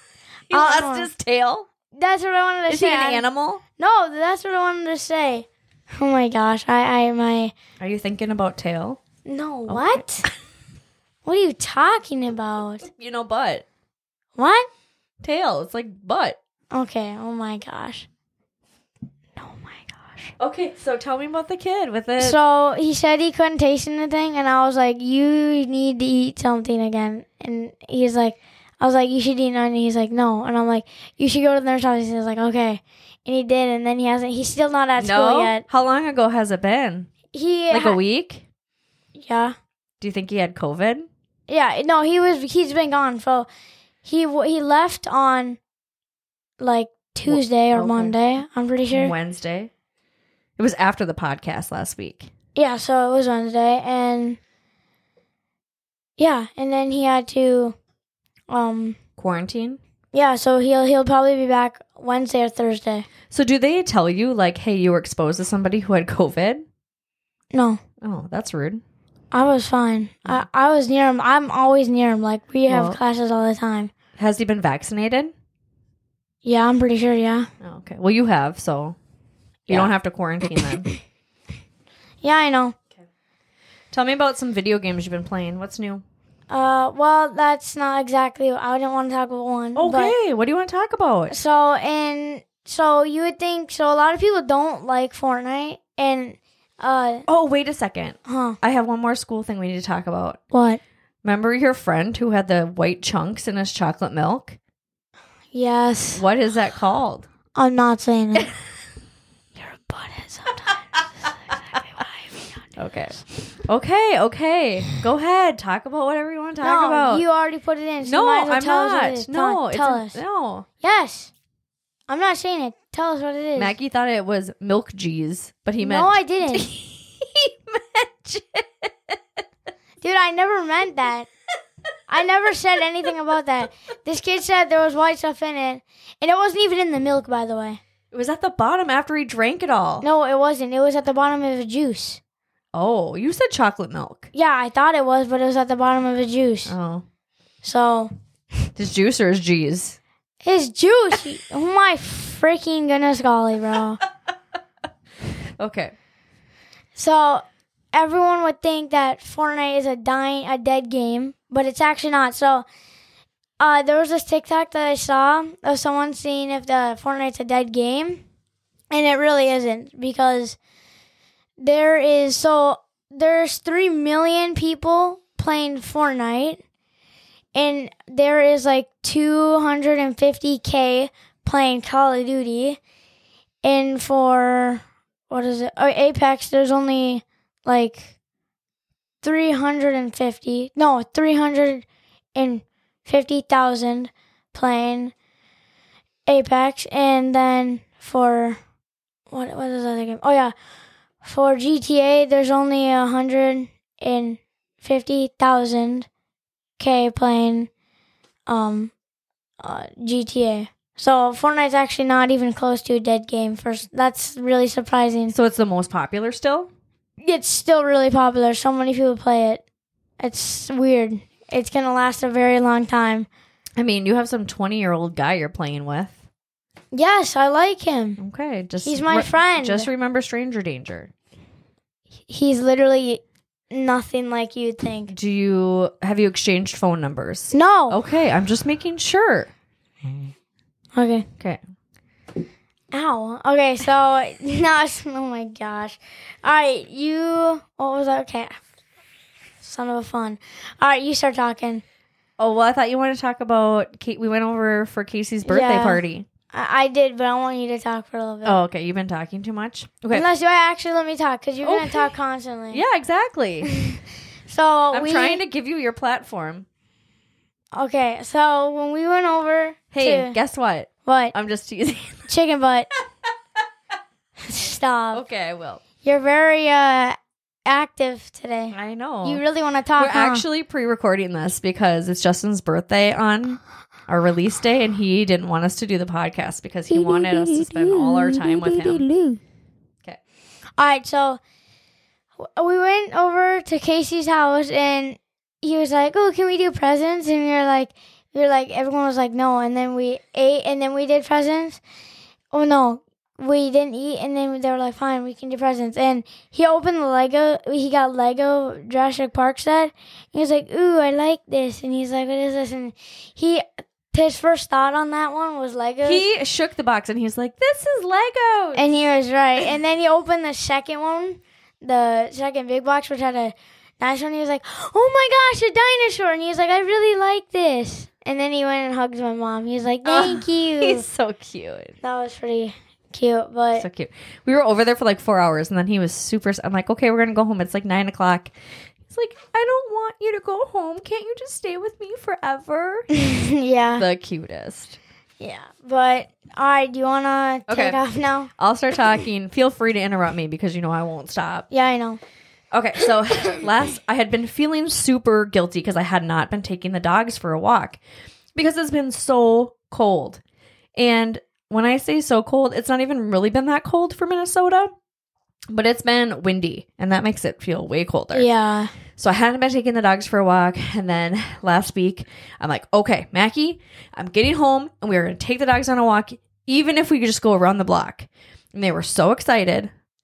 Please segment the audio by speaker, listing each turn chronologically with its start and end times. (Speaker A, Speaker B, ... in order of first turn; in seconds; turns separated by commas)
Speaker A: 0.5-1.7, Speaker B: 0.5-1.1, Speaker B: 1.9-3.2, Speaker A: 2.7-3.6, Speaker B: 3.8-7.5, Speaker A: 7.8-9.0, Speaker B: 9.3-10.3, Speaker A: 9.7-10.3, Speaker B: 11.2-12.9, Speaker A: 12.9-13.7, Speaker B: 14.4-14.7, Speaker A: 15.2-16.4, Speaker B: 16.7-18.1, Speaker B: 19.4-20.3, Speaker A: 20.4-22.4, Speaker B: 22.2-35.6, Speaker A: 35.0-37.1, Speaker B: 37.3-38.0, Speaker A: 37.7-38.5, Speaker B: 39.2-39.5, Speaker A: 40.0-41.1, Speaker B: 41.5-43.5, Speaker B: 44.0-45.6, Speaker B: 46.6-49.1, Speaker A: 47.3-48.2, Speaker A: 48.9-49.7, Speaker A: 50.6-52.3, Speaker B: 52.5-54.4, Speaker B: 56.2-57.8, Speaker B: 58.5-59.0, Speaker A: 59.2-59.8, Speaker B: 60.1-63.1, Speaker A: 63.3-66.6, Speaker B: 67.5-67.8, Speaker A: 68.0-68.8, Speaker B: 69.3-73.9, Speaker A: 72.7-73.0, Speaker A: 74.2-75.3, Speaker B: 76.4-77.5, Speaker A: 77.6-79.0, Speaker A: 79.7-80.9, Speaker B: 82.2-82.8, Speaker A: 83.9-86.0, Speaker B: 86.5-90.2, Speaker A: 89.8-91.4, Speaker B: 91.3-97.3, Speaker A: 97.3-100.4, Speaker B: 98.3-98.6, Speaker B: 100.5-100.8, Speaker A: 101.2-104.6, Speaker B: 105.5-106.2, Speaker A: 106.1-107.3, Speaker B: 107.5-108.5, Speaker B: 109.6-112.5, Speaker A: 112.8-117.2, Speaker B: 116.6-120.2, Speaker A: 118.0-120.7, Speaker B: 120.8-121.3, Speaker B: 122.1-123.8, Speaker A: 123.6-128.9, Speaker B: 125.8-126.7, Speaker B: 130.0-131.3, Speaker B: 132.1-137.8, Speaker A: 138.1-140.1, Speaker B: 140.0-142.2, Speaker A: 142.7-144.3, Speaker B: 144.3-146.8, Speaker A: 146.7-147.1, Speaker B: 147.6-148.1, Speaker A: 148.8-150.0, Speaker B: 150.4-154.0, Speaker A: 155.6-155.9, Speaker B: 156.9-162.7, Speaker B: 163.6-168.2, Speaker B: 168.9-170.6, Speaker B: 171.6-176.6, Speaker B: 177.6-182.8, Speaker B: 183.6-188.1, Speaker B: 189.2-195.1, Speaker B: 196.3-198.6, Speaker B: 199.3-200.5, Speaker B: 201.2-206.1, Speaker B: 206.8-207.7, Speaker B: 208.5-208.9, Speaker B: 209.6-215.3, Speaker A: 215.3-216.7, Speaker B: 217.2-219.6, Speaker B: 220.2-223.3, Speaker A: 223.8-226.2, Speaker B: 226.9-228.2, Speaker A: 228.2-231.1, Speaker B: 228.8-229.9, Speaker B: 232.3-235.1, Speaker A: 235.1-239.5, Speaker B: 237.5-238.0, Speaker B: 240.9-241.3, Speaker B: 242.9-248.6, Speaker B: 249.6-251.8, Speaker A: 252.4-256.3, Speaker B: 255.5-258.6, Speaker A: 258.4-260.3, Speaker B: 260.1-262.8, Speaker A: 261.6-262.1, Speaker A: 262.7-263.7, Speaker B: 263.6-265.4, Speaker A: 264.9-266.7, Speaker B: 267.7-270.4, Speaker A: 269.9-272.3, Speaker B: 271.1-271.3, Speaker B: 272.3-272.9, Speaker B: 274.4-275.2, Speaker A: 275.1-275.8, Speaker B: 276.0-280.4, Speaker A: 278.7-279.4, Speaker A: 280.0-289.1, Speaker B: 286.9-289.4, Speaker B: 290.8-291.4, Speaker B: 292.4-301.8, Speaker B: 302.5-316.3, Speaker A: 316.0-318.9, Speaker B: 318.8-331.1, Speaker A: 330.1-331.9, Speaker B: 332.0-333.9, Speaker A: 333.8-338.6, Speaker A: 339.1-343.1, Speaker B: 343.1-344.1, Speaker A: 344.0-345.0, Speaker B: 345.4-348.5, Speaker A: 347.7-348.0, Speaker A: 348.6-351.7, Speaker B: 351.7-352.2, Speaker A: 352.7-358.0, Speaker A: 358.6-360.4, Speaker A: 361.0-364.9, Speaker A: 365.7-368.5, Speaker B: 368.3-368.9, Speaker A: 369.2-379.9